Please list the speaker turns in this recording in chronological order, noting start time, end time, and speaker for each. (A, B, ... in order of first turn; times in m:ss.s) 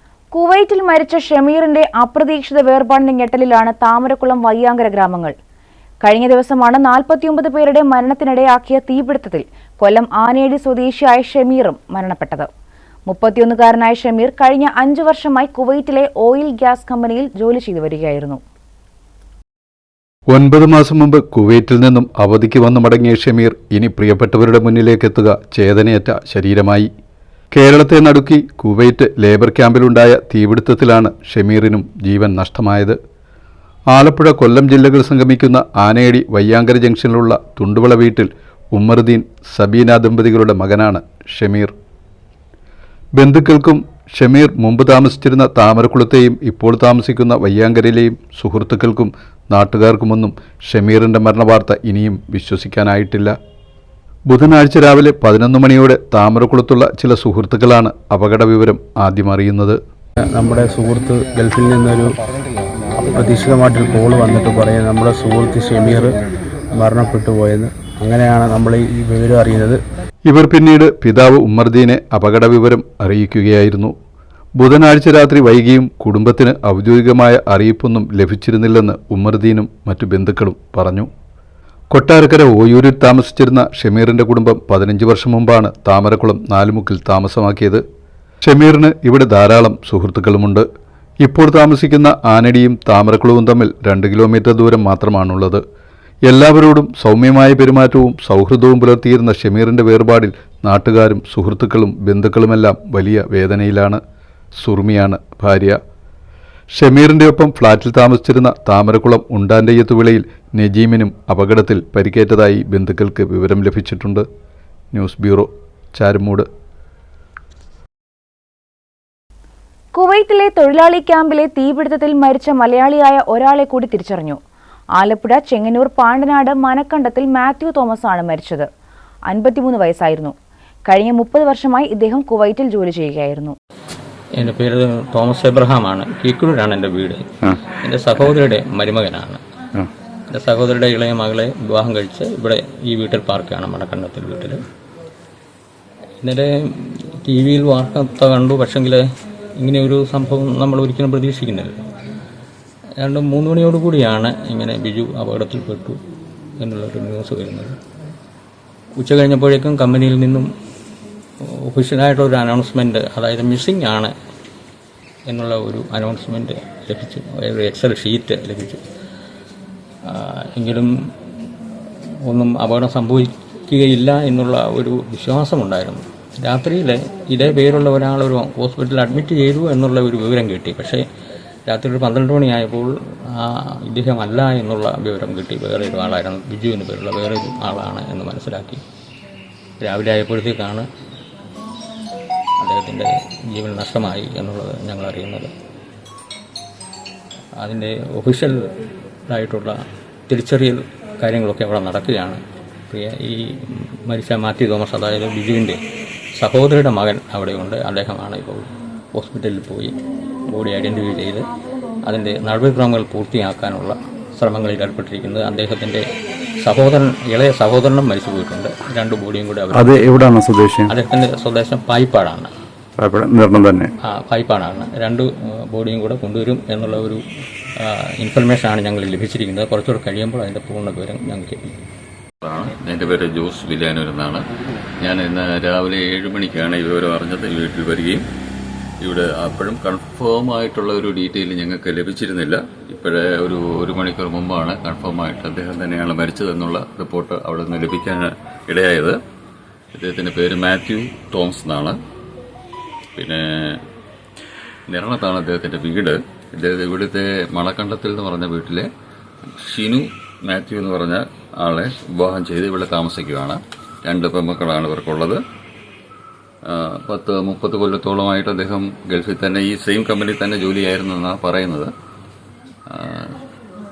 0:00.3-0:05.3 A
0:06.0-0:12.5 A
0:13.1-0:18.4 A
0:20.3-0:26.9 B
0:27.5-0:33.0 B
0:33.9-0:41.7 B
0:43.2-0:53.4 B
0:54.3-0:59.8 B
1:00.3-1:02.2 C
1:03.1-1:06.2 C
1:06.8-1:09.8 C
1:10.3-1:13.9 B
1:14.6-1:21.1 B
1:21.9-1:27.8 B
1:28.4-1:30.6 B
1:31.2-1:35.6 B
1:36.3-1:44.0 B
1:44.6-1:45.8 B
1:46.7-1:54.2 B
1:54.9-1:56.5 B
1:59.9-2:04.4 A
2:05.0-2:08.7 A
2:09.3-2:10.3 A
2:10.9-2:13.6 A
2:14.4-2:19.4 D
2:20.3-2:24.6 D
2:26.2-2:29.0 D
2:29.6-2:31.8 D
2:33.0-2:36.0 D
2:36.6-2:37.8 D
2:39.0-2:40.5 D
2:41.4-2:44.1 D
2:45.3-2:48.8 D
2:50.0-2:50.9 D
2:52.3-3:01.0 D
3:01.7-3:08.8 D
3:09.8-3:10.9 D
3:12.6-3:15.5 D
3:17.6-3:18.7 D
3:19.3-3:25.8 D
3:26.4-3:30.0 D
3:30.5-3:31.5 D
3:32.0-3:36.1 D
3:36.6-3:40.3 D
3:39.7-3:40.9 E
3:40.9-3:42.5 D
3:43.0-3:43.9 E
3:44.1-3:47.2 D
3:47.8-3:51.8 D
3:52.4-3:54.5 F
3:55.0-3:58.2 F
3:59.0-4:09.2 F
4:10.0-4:12.0 F
4:13.2-4:13.8 F
4:14.9-4:18.9 F
4:19.6-4:25.4 F
4:26.7-4:31.9 F
4:32.9-4:33.4 F